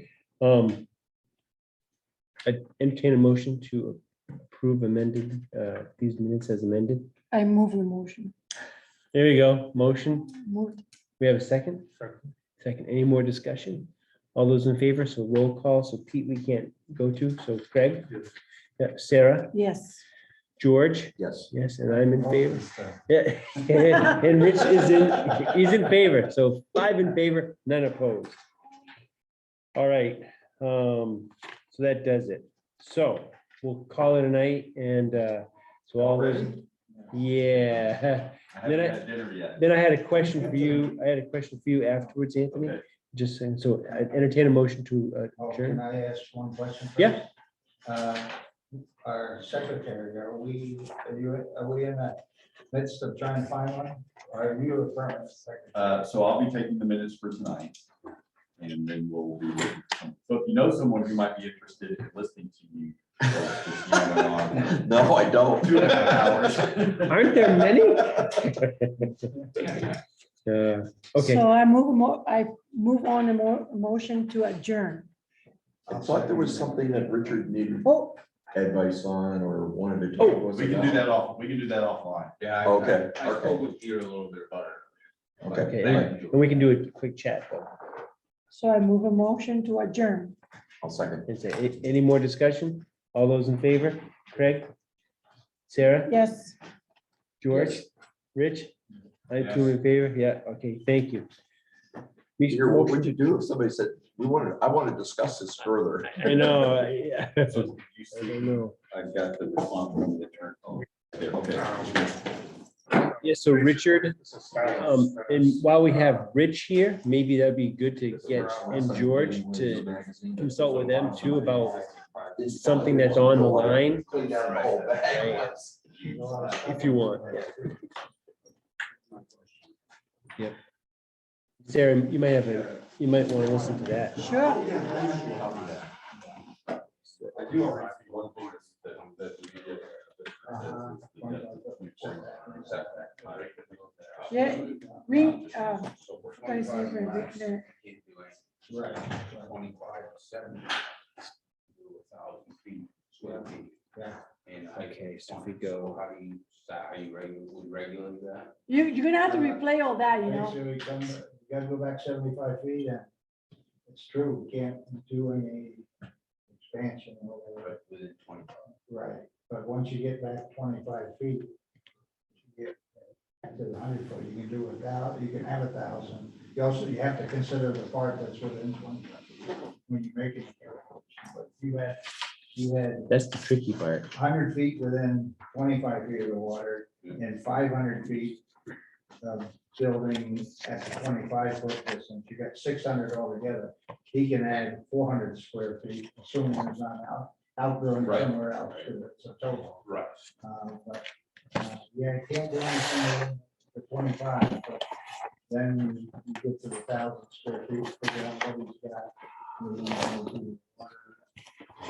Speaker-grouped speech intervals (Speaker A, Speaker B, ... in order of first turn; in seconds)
Speaker A: 0.4-0.8, 2.4-7.1, 9.1-10.4, 11.2-11.9, 12.6-18.1, 18.8-19.5, 20.6-28.4, 29.7-45.8, 67.0-69.2, 70.5-71.5, 85.7-87.7, 91.3-94.7, 95.7-96.2, 97.4-98.7, 99.3-101.3, 102.4-103.1, 106.1-108.8, 113.0-121.8, 122.4-124.0, 125.0-125.5, 126.6-127.5, 131.6-134.3, 154.7-156.0, 183.1-184.1
Speaker B: 7.3-8.3, 10.3-10.8, 19.5-20.0, 71.2-75.1, 77.8-78.2, 88.5-90.3, 96.1-96.6, 134.2-134.8, 144.3-147.7, 158.7-160.6
Speaker C: 21.2-21.5, 64.7-66.8, 75.9-78.0, 78.5-81.1, 82.6-83.6, 85.4-86.1, 90.8-91.3, 102.5-106.4, 118.1-125.2, 134.4-135.8
Speaker D: 22.4-22.8, 40.1-41.0, 43.9-44.3, 45.4-47.3, 47.8-48.4, 49.0-56.1, 75.9-77.0, 125.9-127.9, 134.5-135.7, 140.4-143.0, 144.7-145.2, 148.7-149.6, 153.9-154.2, 159.2-163.1, 163.8-165.9, 166.5-167.7, 168.9-171.5, 172.4-183.1, 184.1-188.4, 189.2-199.8, 200.4-204.8, 205.5-211.2
Speaker E: 36.0-36.4, 38.5-39.7, 42.5-42.8, 55.7-57.8, 58.6-67.1, 80.2-82.3, 107.5-111.9, 137.3-137.8, 140.4-142.8, 144.2-144.5
Speaker F: 82.4-84.8, 85.4-86.7, 123.9-126.7, 137.4-140.5, 142.4-148.4, 148.9-150.8, 151.7-153.7, 154.4-158.6, 167.6-168.7, 199.8-200.1